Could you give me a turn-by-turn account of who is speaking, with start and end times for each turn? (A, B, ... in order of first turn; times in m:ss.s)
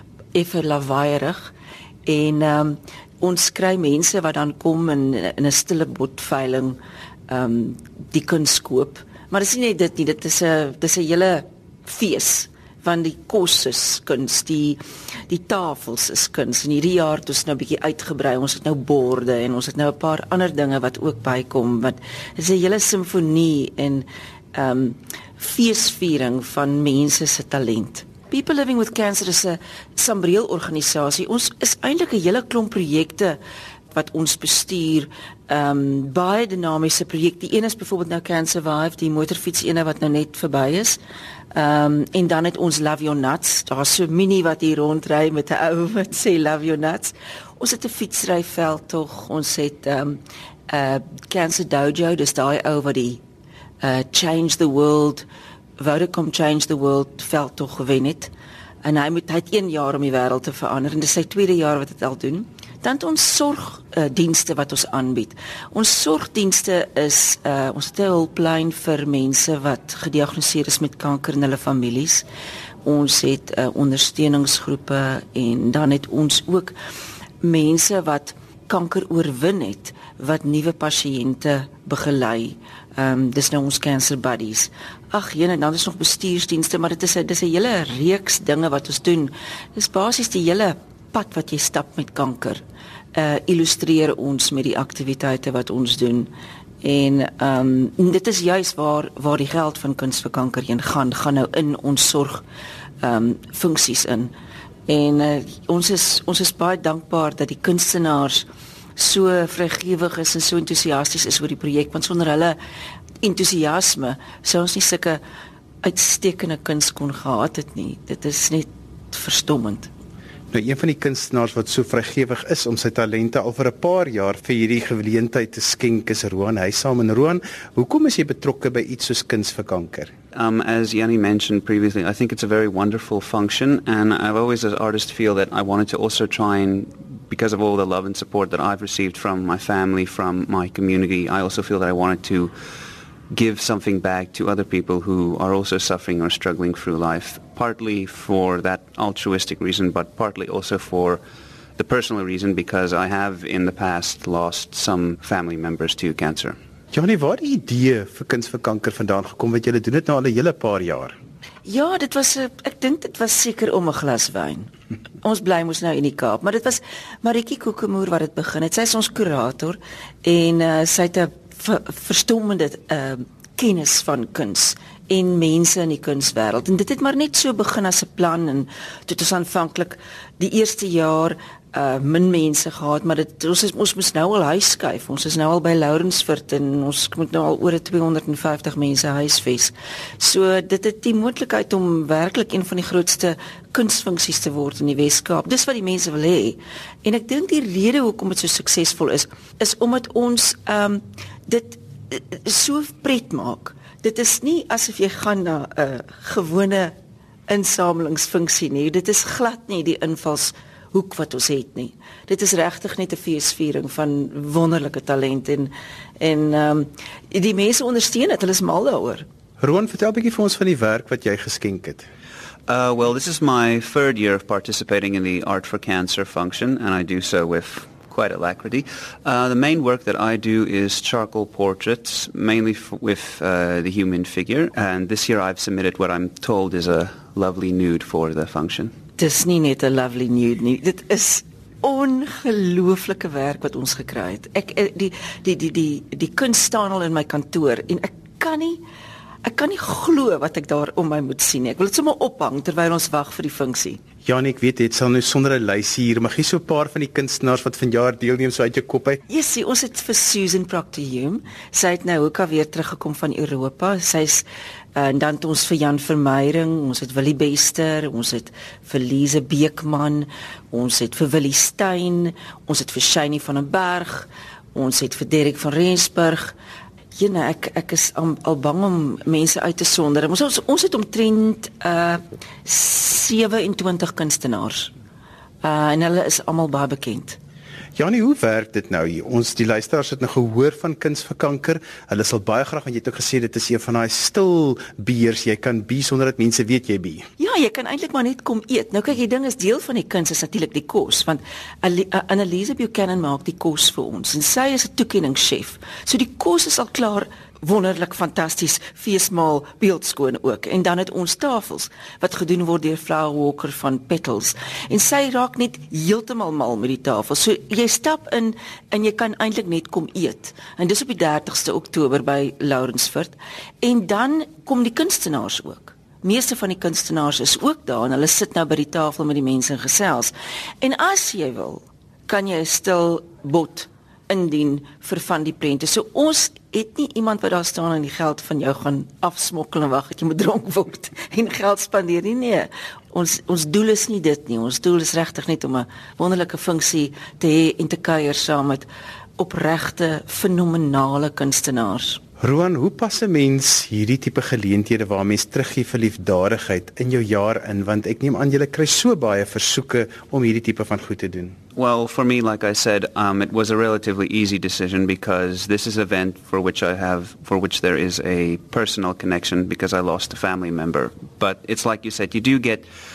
0:00.3-0:01.5 A
0:02.0-0:33.4 A
0:33.9-0:41.0 A
0:41.5-0:53.2 A
0:53.8-0:55.2 A
0:55.8-0:58.3 A
0:58.8-1:12.2 A
1:12.8-1:16.7 A
1:17.4-1:32.6 A
1:33.1-1:36.3 A
1:36.8-1:42.4 A
1:43.0-1:44.3 A
1:44.9-1:48.4 A
1:49.0-1:52.6 A
1:53.2-1:55.2 A
1:55.8-1:59.9 A
2:00.5-2:10.1 B
2:10.3-2:22.5 C
2:23.3-2:31.2 C
2:31.8-2:36.6 C
2:36.9-2:41.1 B
2:41.6-2:44.7 A
2:45.2-3:26.9 A
3:27.5-3:39.2 A
3:39.6-3:42.1 B
3:42.7-3:58.9 C
3:59.2-4:08.8 A
4:09.4-4:14.0 A
4:14.2-4:19.2 B
4:19.3-4:24.4 A
4:25.0-4:36.6 A
4:37.2-4:44.9 A
4:45.6-4:47.4 A
4:48.0-4:57.2 B
4:57.4-5:48.9 A
5:49.4-5:52.2 A
5:52.4-6:01.6 B
6:01.8-6:12.9 C